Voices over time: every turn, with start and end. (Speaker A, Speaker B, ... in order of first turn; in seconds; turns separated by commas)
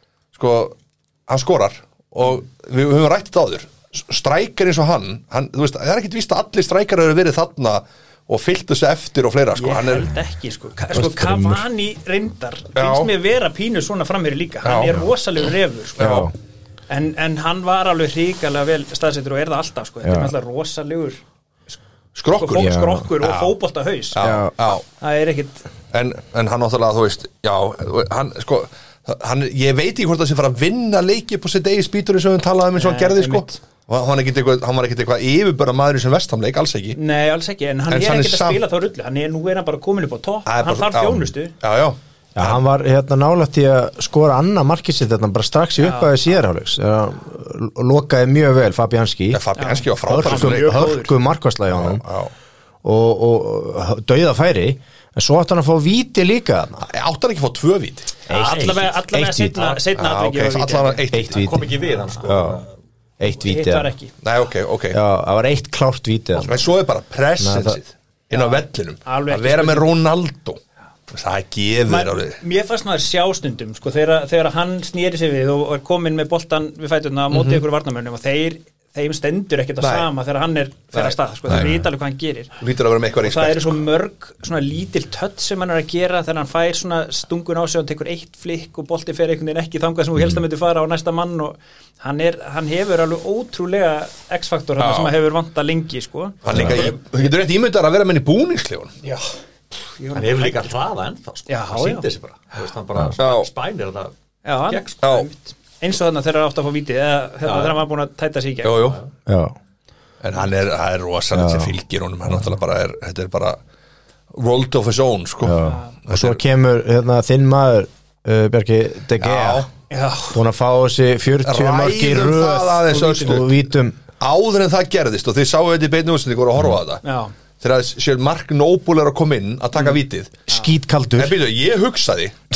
Speaker A: 0.3-10.1, Speaker B: 9.6-16.3, Speaker C: 10.9-11.6, Speaker A: 12.8-13.1, Speaker A: 14.6-15.0, Speaker A: 16.0-16.3, Speaker C: 16.0-16.3, Speaker B: 16.9-21.2, Speaker C: 20.1-20.3, Speaker A: 22.1-23.6, Speaker B: 22.3-24.2, Speaker C: 22.6-23.1, Speaker A: 24.1-24.8, Speaker C: 24.2-24.5, Speaker B: 24.9-25.7, Speaker A: 25.9-37.0, Speaker B: 32.8-33.6, Speaker B: 37.0-41.5, Speaker A: 37.9-38.6, Speaker A: 40.5-42.6, Speaker C: 42.4-49.4, Speaker B: 45.8-46.2, Speaker A: 49.3-50.9, Speaker B: 49.6-51.1, Speaker C: 50.1-52.0, Speaker A: 51.8-52.3, Speaker C: 52.8-56.9, Speaker A: 56.8-58.1, Speaker C: 58.3-59.8, Speaker B: 58.3-61.1, Speaker D: 58.3-58.8, Speaker A: 59.9-61.5, Speaker C: 61.1-61.7, Speaker D: 61.3-62.7, Speaker C: 62.3-62.6, Speaker C: 63.2-63.9, Speaker B: 63.4-64.1, Speaker A: 64.2-65.0, Speaker C: 64.9-66.7, Speaker A: 66.3-72.4, Speaker C: 67.4-67.8, Speaker B: 68.3-69.9, Speaker B: 71.9-82.6, Speaker A: 77.3-77.6, Speaker A: 79.8-80.1, Speaker A: 80.9-81.8, Speaker A: 82.6-83.8, Speaker B: 83.2-97.0, Speaker A: 94.8-95.2, Speaker A: 96.5-98.9, Speaker D: 96.5-96.8, Speaker B: 100.0-100.7, Speaker D: 100.1-104.1, Speaker B: 101.5-102.1, Speaker A: 103.2-103.5, Speaker B: 104.5-109.0, Speaker D: 104.7-105.0, Speaker A: 105.0-105.3, Speaker D: 107.4-107.8, Speaker A: 108.6-109.0, Speaker C: 109.3-109.6, Speaker A: 110.2-113.6, Speaker C: 111.3-111.8, Speaker A: 114.3-116.4, Speaker C: 115.4-119.7, Speaker B: 115.6-116.0, Speaker A: 119.2-119.7, Speaker B: 119.9-120.4, Speaker C: 120.3-124.0, Speaker A: 121.4-123.6, Speaker B: 123.0-123.4, Speaker A: 124.2-127.0, Speaker B: 127.0-127.3, Speaker A: 127.6-130.3, Speaker C: 130.5-131.4, Speaker A: 131.2-132.4